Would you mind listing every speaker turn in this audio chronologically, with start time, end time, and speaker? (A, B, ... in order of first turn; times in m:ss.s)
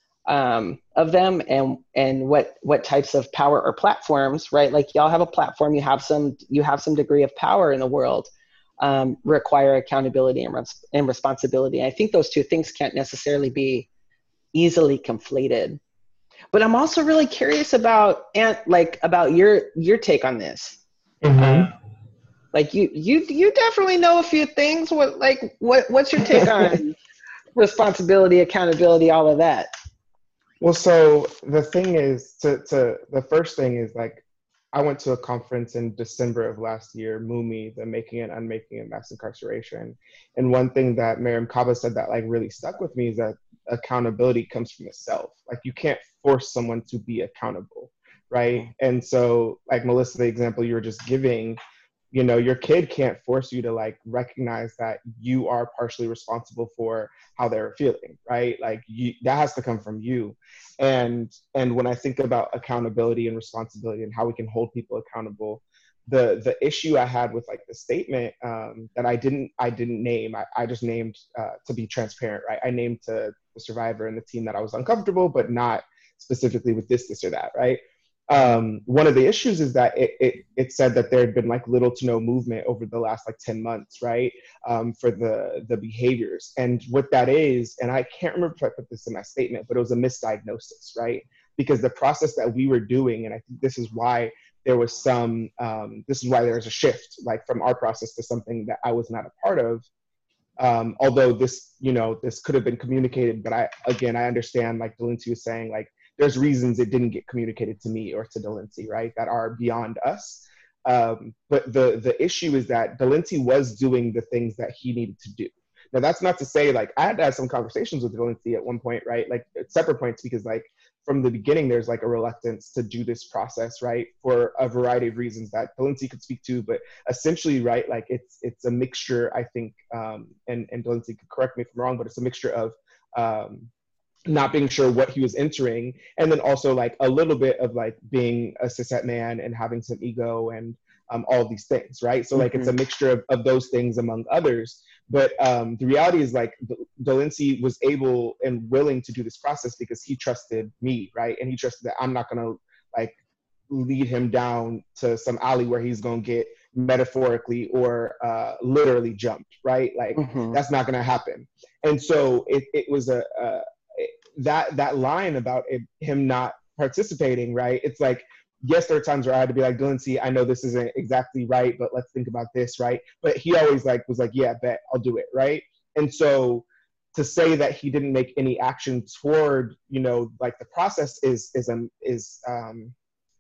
0:00.3-0:13.9 A
0:14.5-0:15.8 A
0:16.5-0:20.8 A
0:21.2-0:21.7 B
0:21.4-0:21.7 A
0:22.5-0:27.0 A
0:26.4-0:26.8 B
0:27.6-0:29.7 A
0:30.6-0:34.2 B
0:34.7-0:51.6 B
0:52.1-1:39.9 B
1:40.6-2:13.7 B
2:14.3-2:33.2 B
2:22.4-2:22.7 A
2:33.7-3:02.9 B
2:40.2-2:40.6 A